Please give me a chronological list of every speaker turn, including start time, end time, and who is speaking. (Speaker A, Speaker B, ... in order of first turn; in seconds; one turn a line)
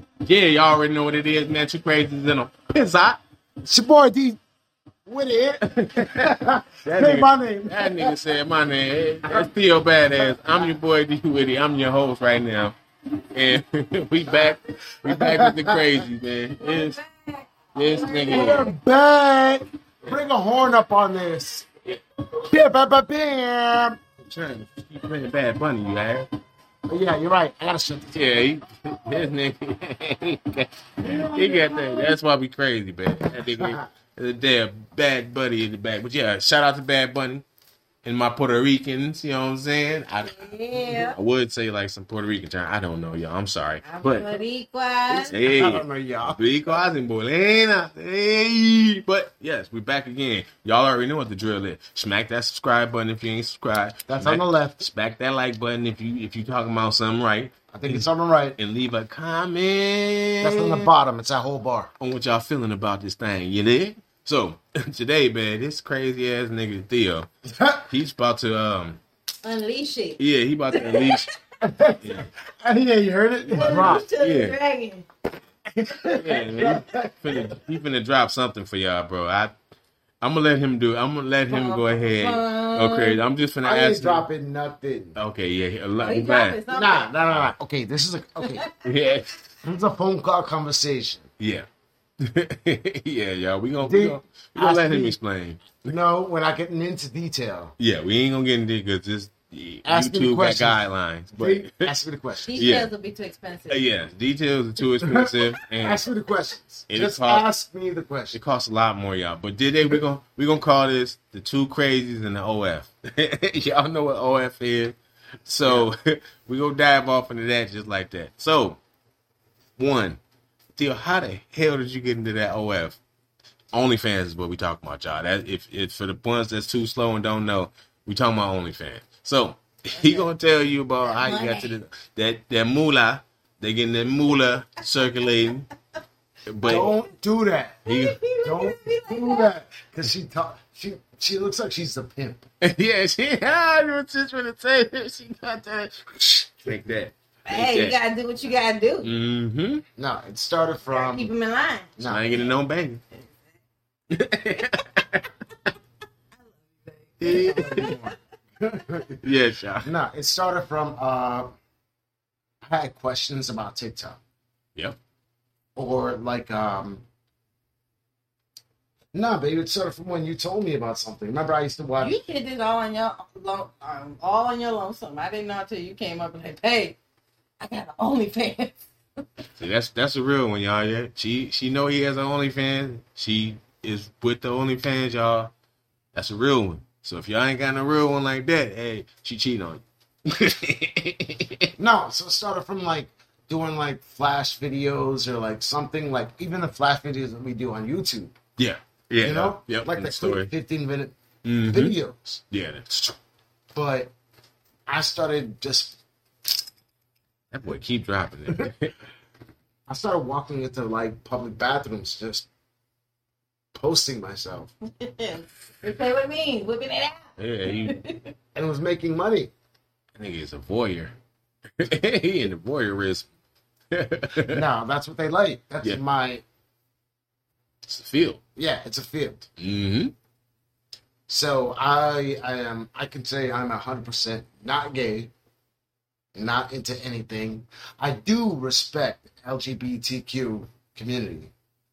Speaker A: 0.2-3.2
Speaker B: 3.6-4.4
Speaker B: 5.0-8.2
Speaker A: 5.6-12.8
Speaker A: 13.3-17.0
Speaker B: 14.3-16.1
Speaker C: 16.6-18.7
Speaker A: 17.7-18.7
Speaker B: 18.3-21.7
Speaker B: 22.4-24.0
Speaker A: 24.2-26.3
Speaker B: 26.9-28.1
Speaker A: 28.1-37.4
Speaker B: 31.0-32.0
Speaker B: 33.4-33.8
Speaker A: 38.0-44.4
Speaker C: 40.2-41.2
Speaker C: 43.8-45.3
Speaker B: 45.1-46.8
Speaker A: 45.3-60.9
Speaker B: 54.1-54.9
Speaker B: 57.7-58.6
Speaker B: 60.4-61.9
Speaker A: 62.0-67.3
Speaker B: 67.5-67.8
Speaker A: 67.9-69.0
Speaker C: 69.4-71.3
Speaker A: 70.2-71.3
Speaker B: 71.6-74.0
Speaker A: 72.0-72.3
Speaker A: 73.4-74.6
Speaker C: 73.5-75.1
Speaker B: 75.7-77.5
Speaker A: 76.1-79.5
Speaker A: 80.2-84.2
Speaker C: 81.5-83.2
Speaker B: 83.6-85.2
Speaker A: 85.1-86.6
Speaker C: 86.0-87.1
Speaker B: 86.7-88.6
Speaker C: 88.4-88.8
Speaker A: 88.8-89.5
Speaker B: 89.6-91.3
Speaker A: 91.4-91.7
Speaker A: 92.2-95.9
Speaker B: 93.8-95.2
Speaker B: 95.8-97.7
Speaker A: 97.8-101.9
Speaker B: 99.8-102.7
Speaker C: 102.4-103.8
Speaker A: 102.5-102.9
Speaker A: 103.7-106.0
Speaker B: 105.0-108.4
Speaker A: 106.9-107.5
Speaker A: 108.3-118.8
Speaker B: 115.6-115.9
Speaker A: 119.8-120.2
Speaker A: 120.8-123.0
Speaker A: 123.7-135.7
Speaker C: 130.0-130.2
Speaker C: 131.1-131.7
Speaker C: 135.0-135.4
Speaker A: 136.4-136.9
Speaker B: 136.6-137.8
Speaker A: 137.9-138.2
Speaker C: 137.9-139.5
Speaker B: 138.4-142.4
Speaker A: 142.6-147.9
Speaker C: 147.5-149.1
Speaker A: 149.0-149.8
Speaker B: 150.0-151.3
Speaker C: 150.9-151.9
Speaker B: 152.0-152.3
Speaker A: 152.0-153.0
Speaker A: 154.1-155.3
Speaker C: 156.6-158.1
Speaker A: 157.2-158.0
Speaker B: 157.2-159.2
Speaker A: 159.2-159.9
Speaker B: 159.8-161.6
Speaker B: 162.6-164.2
Speaker B: 165.8-167.0
Speaker B: 169.1-172.2
Speaker C: 172.0-177.0
Speaker C: 177.6-178.8
Speaker A: 179.6-185.5
Speaker A: 186.1-191.7
Speaker B: 191.8-198.3
Speaker A: 198.6-200.5
Speaker B: 199.2-201.2
Speaker A: 201.4-201.9
Speaker B: 201.7-202.4
Speaker A: 202.5-203.2
Speaker B: 203.7-204.1
Speaker B: 204.9-206.0
Speaker A: 207.5-208.9
Speaker B: 209.9-212.5
Speaker B: 213.7-214.7
Speaker C: 214.9-218.3
Speaker A: 217.4-218.0
Speaker B: 218.5-219.5
Speaker A: 220.2-221.1
Speaker A: 221.8-223.3
Speaker A: 223.9-224.6
Speaker B: 224.5-226.4
Speaker A: 227.8-228.4
Speaker B: 228.6-229.5
Speaker A: 229.6-230.1
Speaker B: 231.3-235.3
Speaker B: 236.3-241.5